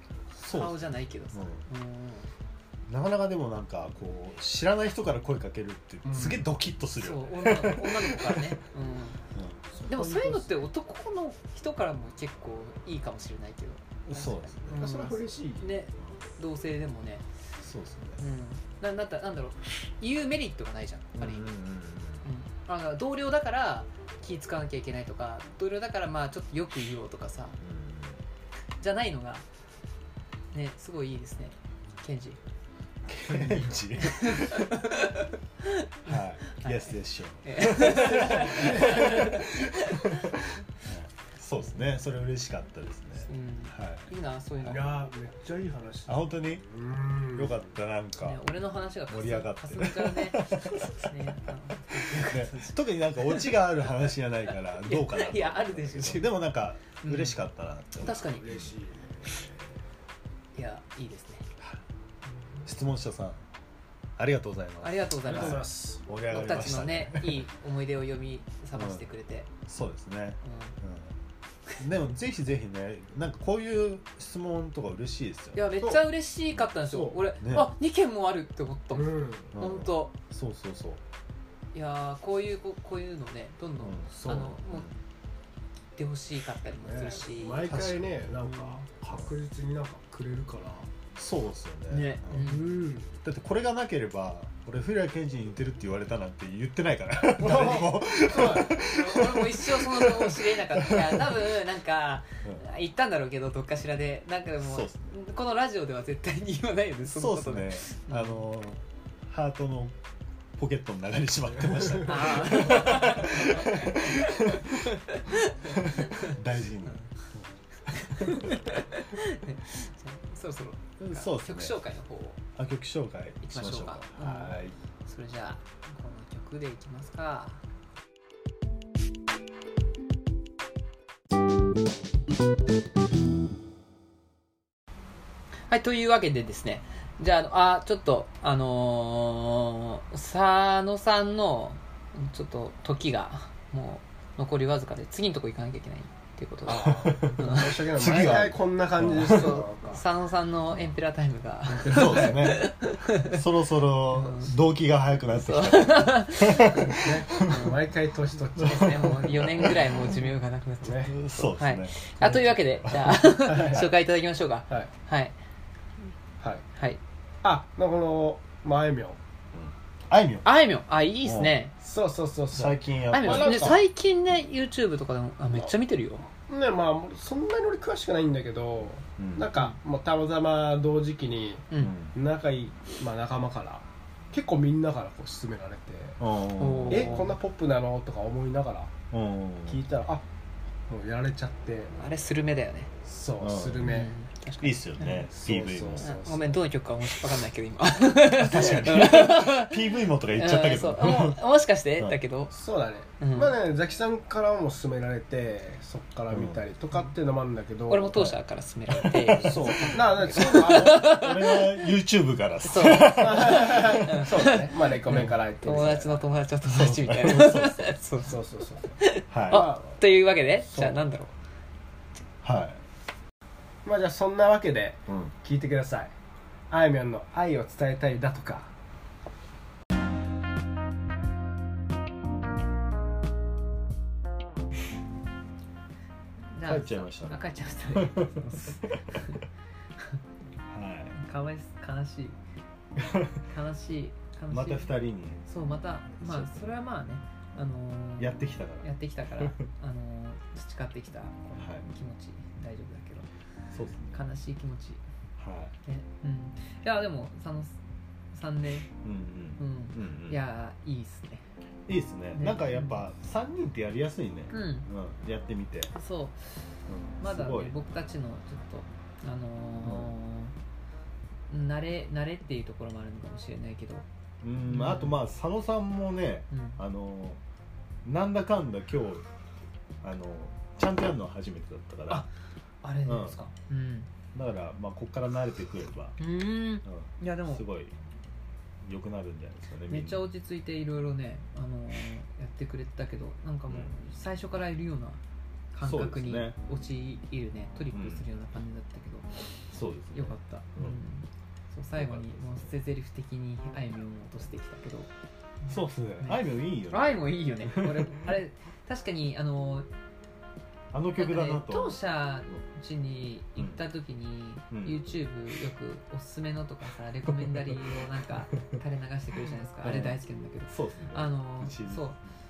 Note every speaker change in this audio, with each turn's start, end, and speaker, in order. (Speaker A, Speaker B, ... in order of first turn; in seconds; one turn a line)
Speaker A: 0.4-0.8
Speaker B: 0.4-2.3
Speaker A: 1.3-1.6
Speaker A: 2.9-8.5
Speaker C: 6.0-6.5
Speaker B: 7.0-9.2
Speaker A: 9.3-9.6
Speaker C: 9.7-10.5
Speaker B: 9.9-17.2
Speaker A: 14.1-14.9
Speaker C: 14.7-15.8
Speaker A: 17.6-18.2
Speaker B: 18.2-21.6
Speaker A: 21.1-22.2
Speaker B: 22.2-27.6
Speaker A: 27.6-28.2
Speaker B: 28.8-29.4
Speaker B: 30.5-32.4
Speaker A: 33.0-34.8
Speaker B: 33.3-40.6
Speaker A: 36.0-44.1
Speaker B: 43.2-45.1
Speaker C: 44.6-47.7
Speaker A: 46.0-46.6
Speaker A: 47.3-48.4
Speaker B: 48.2-53.6
Speaker A: 49.1-51.4
Speaker A: 51.9-58.7
Speaker B: 54.8-56.4
Speaker B: 57.0-57.4
Speaker B: 58.0-58.6
Speaker C: 58.0-59.8
Speaker B: 60.5-61.5
Speaker A: 62.6-63.4
Speaker A: 64.2-67.5
Speaker B: 64.8-65.7
Speaker C: 65.2-66.0
Speaker B: 66.2-69.5
Speaker A: 68.8-69.0
Speaker A: 69.7-71.2
Speaker B: 70.4-70.8
Speaker A: 71.8-75.8
Speaker B: 75.5-80.2
Speaker A: 76.6-77.7
Speaker C: 78.9-79.5
Speaker A: 79.5-81.0
Speaker B: 81.7-84.9
Speaker A: 83.8-85.0
Speaker B: 86.0-87.7
Speaker C: 86.8-90.9
Speaker A: 87.7-89.3
Speaker B: 88.5-88.7
Speaker A: 91.2-92.5
Speaker B: 91.9-92.8
Speaker C: 92.4-93.1
Speaker A: 93.2-101.4
Speaker C: 97.4-98.8
Speaker B: 97.4-108.4
Speaker A: 104.6-105.1
Speaker A: 107.1-110.0
Speaker A: 110.5-114.9
Speaker B: 112.0-116.4
Speaker A: 115.6-118.8
Speaker B: 117.9-122.4
Speaker A: 121.0-121.8
Speaker A: 122.5-124.8
Speaker B: 123.4-127.6
Speaker B: 135.7-148.4
Speaker C: 146.7-150.0
Speaker A: 146.9-149.6
Speaker B: 149.0-153.4
Speaker C: 151.7-152.5
Speaker A: 151.8-157.6
Speaker B: 154.1-154.6
Speaker B: 155.3-157.8
Speaker C: 156.9-159.3
Speaker B: 158.6-165.4
Speaker A: 158.7-160.1
Speaker C: 160.8-161.1
Speaker A: 161.1-163.3
Speaker C: 163.4-163.9
Speaker C: 166.4-166.7
Speaker B: 166.8-167.0
Speaker C: 167.4-169.2
Speaker A: 169.5-170.5
Speaker B: 170.4-171.7
Speaker A: 171.2-171.5
Speaker C: 171.8-173.8
Speaker A: 172.5-173.8
Speaker B: 173.1-176.3
Speaker C: 176.5-186.2
Speaker A: 179.2-179.5
Speaker B: 181.7-181.9
Speaker A: 181.8-182.1
Speaker A: 186.2-187.3
Speaker B: 186.6-187.3
Speaker C: 186.9-188.9
Speaker A: 189.1-189.9
Speaker C: 189.7-190.2
Speaker C: 190.9-191.9
Speaker B: 192.0-192.9
Speaker C: 193.0-194.1
Speaker A: 193.4-194.0
Speaker B: 193.8-195.3
Speaker A: 194.6-196.1
Speaker C: 195.3-196.6
Speaker B: 196.0-199.8
Speaker A: 198.3-201.4
Speaker B: 200.3-202.5
Speaker C: 202.5-208.3
Speaker B: 203.2-203.5
Speaker A: 206.3-206.6
Speaker B: 207.9-211.8
Speaker A: 208.9-214.2
Speaker C: 209.3-211.1
Speaker B: 212.6-218.4
Speaker C: 212.9-216.3
Speaker A: 215.1-215.4
Speaker A: 216.6-218.0
Speaker C: 218.2-220.0
Speaker B: 219.0-221.3
Speaker A: 219.3-219.7
Speaker C: 220.6-221.0
Speaker A: 222.4-222.8
Speaker C: 223.8-226.1
Speaker A: 225.1-225.3
Speaker C: 226.7-228.7
Speaker B: 236.5-239.4
Speaker A: 236.6-239.0
Speaker A: 240.7-241.2
Speaker B: 241.1-242.4
Speaker A: 243.0-243.4
Speaker B: 243.4-253.3
Speaker A: 244.5-245.4
Speaker A: 246.2-246.7
Speaker A: 248.2-249.6
Speaker A: 251.6-251.9
Speaker A: 253.7-254.2
Speaker B: 254.1-255.0
Speaker A: 255.4-255.7
Speaker B: 255.8-257.8
Speaker B: 258.3-258.9
Speaker A: 259.0-260.4
Speaker B: 259.6-261.5
Speaker A: 261.9-265.9
Speaker B: 262.4-263.0
Speaker B: 264.5-264.9
Speaker B: 265.9-266.5
Speaker A: 266.9-267.7
Speaker B: 267.2-270.5
Speaker A: 269.8-270.1
Speaker B: 271.5-274.1
Speaker A: 274.4-277.4
Speaker B: 274.6-275.2
Speaker B: 276.5-276.8
Speaker A: 278.0-279.2
Speaker A: 280.0-282.3
Speaker B: 282.8-284.1
Speaker A: 283.0-283.4
Speaker A: 284.3-286.2
Speaker B: 286.2-287.6
Speaker A: 286.9-287.9
Speaker A: 288.8-290.2
Speaker B: 289.9-295.2
Speaker A: 293.7-294.0
Speaker B: 295.7-299.6
Speaker A: 295.8-296.6
Speaker A: 297.9-298.2
Speaker A: 299.7-301.0
Speaker B: 300.1-305.1
Speaker A: 302.0-302.7
Speaker B: 305.6-309.9
Speaker A: 305.7-308.3
Speaker A: 310.9-312.6
Speaker B: 311.2-322.2
Speaker A: 314.7-315.0
Speaker A: 317.3-317.8
Speaker A: 319.8-322.1